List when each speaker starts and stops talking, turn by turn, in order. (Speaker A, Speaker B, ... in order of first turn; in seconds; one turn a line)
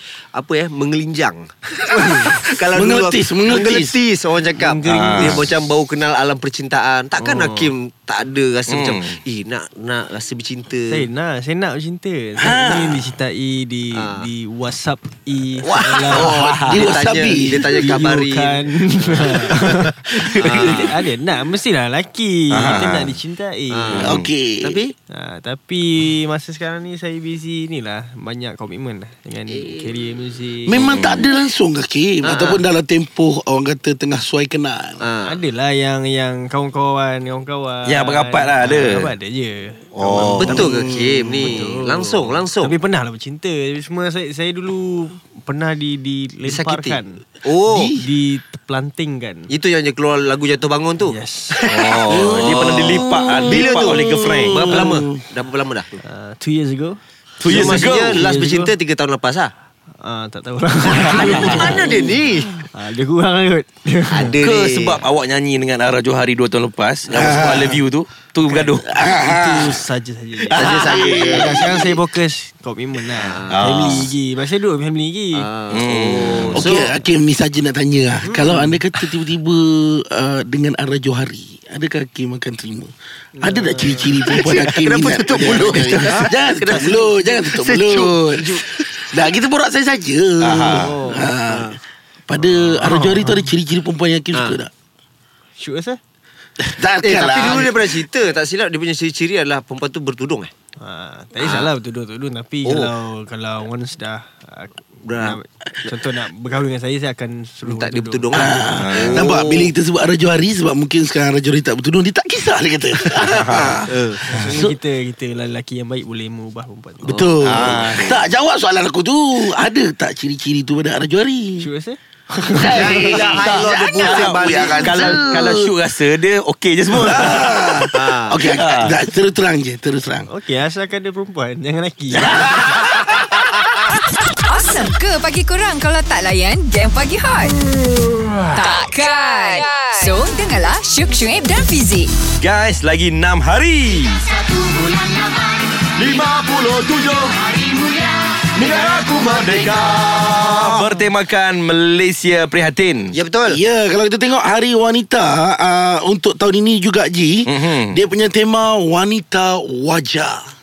Speaker A: 0.3-11.0
Speaker B: 1.9-2.4
Speaker C: 2.7-4.0
Speaker B: 4.6-5.4
Speaker D: 4.9-5.5
Speaker B: 7.2-7.7
Speaker D: 8.7-9.2
Speaker B: 10.9-16.4
Speaker C: 12.4-13.1
Speaker A: 13.9-14.3
Speaker A: 15.6-20.9
Speaker C: 15.9-18.0
Speaker B: 17.7-24.1
Speaker D: 22.5-23.1
Speaker A: 23.7-24.9
Speaker D: 23.9-24.3
Speaker C: 24.0-24.8
Speaker B: 25.1-30.9
Speaker A: 29.5-29.9
Speaker C: 30.6-35.0
Speaker D: 30.8-31.2
Speaker A: 32.2-32.6
Speaker A: 35.0-35.4
Speaker B: 35.2-47.2
Speaker D: 37.9-39.1
Speaker D: 40.0-40.7
Speaker C: 40.2-41.6
Speaker A: 40.4-42.7
Speaker A: 46.5-47.9
Speaker C: 47.7-48.0
Speaker B: 48.0-49.5
Speaker A: 49.5-56.0
Speaker B: 51.0-51.7
Speaker D: 51.7-54.9
Speaker C: 52.1-55.2
Speaker B: 56.0-58.7
Speaker D: 57.4-58.2
Speaker A: 57.4-59.5
Speaker B: 60.0-62.1
Speaker A: 60.9-62.6
Speaker B: 62.6-64.4
Speaker A: 64.1-65.0
Speaker D: 64.4-69.0
Speaker C: 67.1-67.8
Speaker B: 68.5-75.5
Speaker C: 68.9-69.8
Speaker C: 70.5-71.9
Speaker A: 70.5-71.8
Speaker A: 73.1-73.8
Speaker D: 73.5-74.1
Speaker A: 75.4-77.0
Speaker D: 75.7-76.7
Speaker C: 76.5-94.7
Speaker B: 78.2-78.8
Speaker B: 83.3-84.5
Speaker A: 84.2-88.8
Speaker D: 90.4-90.9
Speaker B: 90.8-91.3
Speaker A: 91.0-91.8
Speaker B: 92.7-93.5
Speaker B: 95.6-96.0
Speaker C: 96.6-98.1
Speaker A: 97.0-100.5
Speaker B: 100.8-108.6
Speaker A: 101.4-101.7
Speaker A: 102.7-102.9
Speaker A: 105.0-105.9
Speaker A: 107.6-109.7
Speaker C: 108.3-114.7
Speaker D: 108.8-109.3
Speaker D: 113.4-113.8
Speaker A: 113.8-114.5
Speaker B: 114.2-117.3
Speaker C: 117.0-121.7
Speaker D: 117.4-118.2
Speaker B: 121.6-123.2
Speaker C: 122.5-125.7
Speaker A: 122.6-125.2
Speaker D: 123.2-127.9
Speaker C: 126.9-130.3
Speaker A: 127.9-128.4
Speaker D: 128.4-128.9
Speaker B: 130.3-132.8
Speaker D: 132.2-132.7
Speaker E: 134.4-137.6
Speaker E: 138.5-142.1
Speaker D: 142.4-153.1
Speaker A: 153.1-153.6
Speaker C: 153.5-160.4
Speaker D: 157.4-158.0